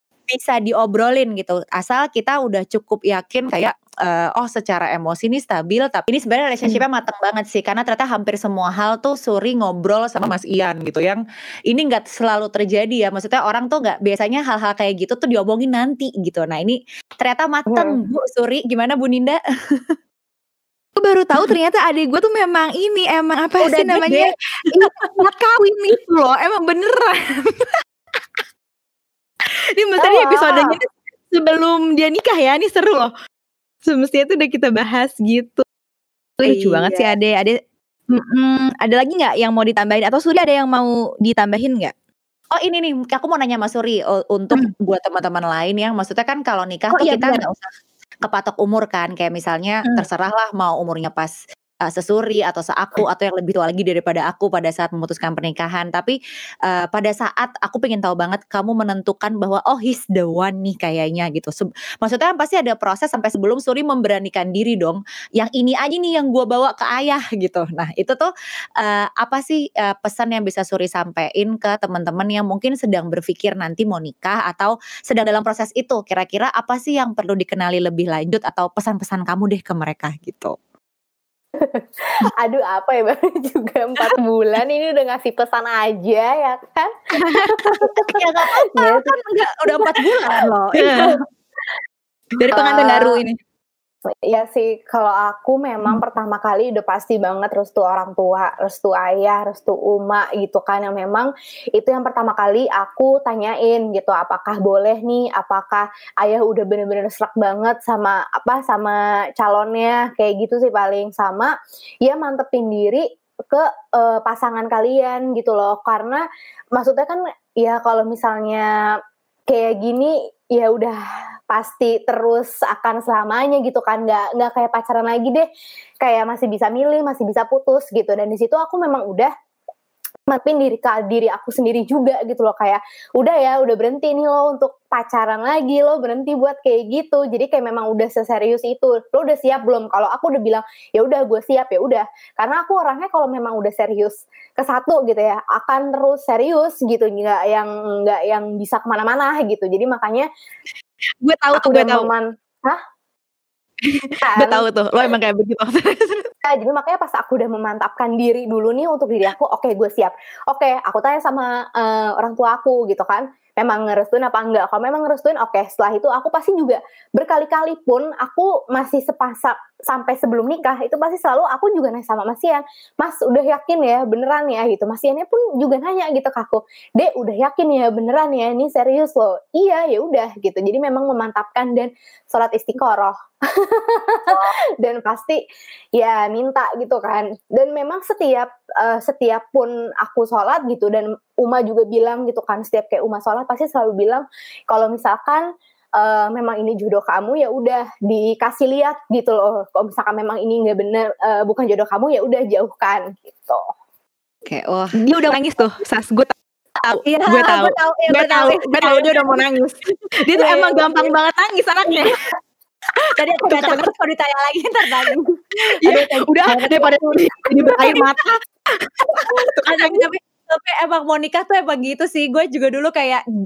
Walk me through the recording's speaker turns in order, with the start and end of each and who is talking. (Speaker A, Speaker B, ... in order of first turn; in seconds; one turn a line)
Speaker A: 0.3-19.9
Speaker B: 17.7-17.9
Speaker C: 21.0-27.7
Speaker A: 23.6-25.2
Speaker C: 29.7-33.1
Speaker B: 30.0-30.6
Speaker C: 33.9-35.6
Speaker C: 36.4-37.6
Speaker A: 36.4-37.1
Speaker C: 38.1-41.9
Speaker A: 42.5-47.5
Speaker C: 46.9-47.5
Speaker A: 48.2-51.3
Speaker A: 51.8-80.5
Speaker B: 81.6-86.9
Speaker B: 87.4-88.2
Speaker A: 88.0-91.1
Speaker B: 88.8-89.2
Speaker C: 90.8-91.1
Speaker C: 92.4-93.3
Speaker B: 92.5-93.1
Speaker B: 94.2-116.2
Speaker B: 116.7-118.7
Speaker B: 119.5-121.0
Speaker B: 121.5-125.5
Speaker B: 126.0-129.3
Speaker B: 130.3-150.3
Speaker C: 151.2-152.1
Speaker B: 151.5-152.8
Speaker C: 153.8-156.2
Speaker B: 154.2-154.6
Speaker B: 156.4-185.4
Speaker B: 185.9-195.4
Speaker B: 196.0-203.7
Speaker A: 204.5-205.0
Speaker C: 205.0-212.2
Speaker A: 207.0-211.2
Speaker A: 213.1-218.2
Speaker C: 213.4-213.9
Speaker C: 215.8-220.1
Speaker A: 219.7-223.2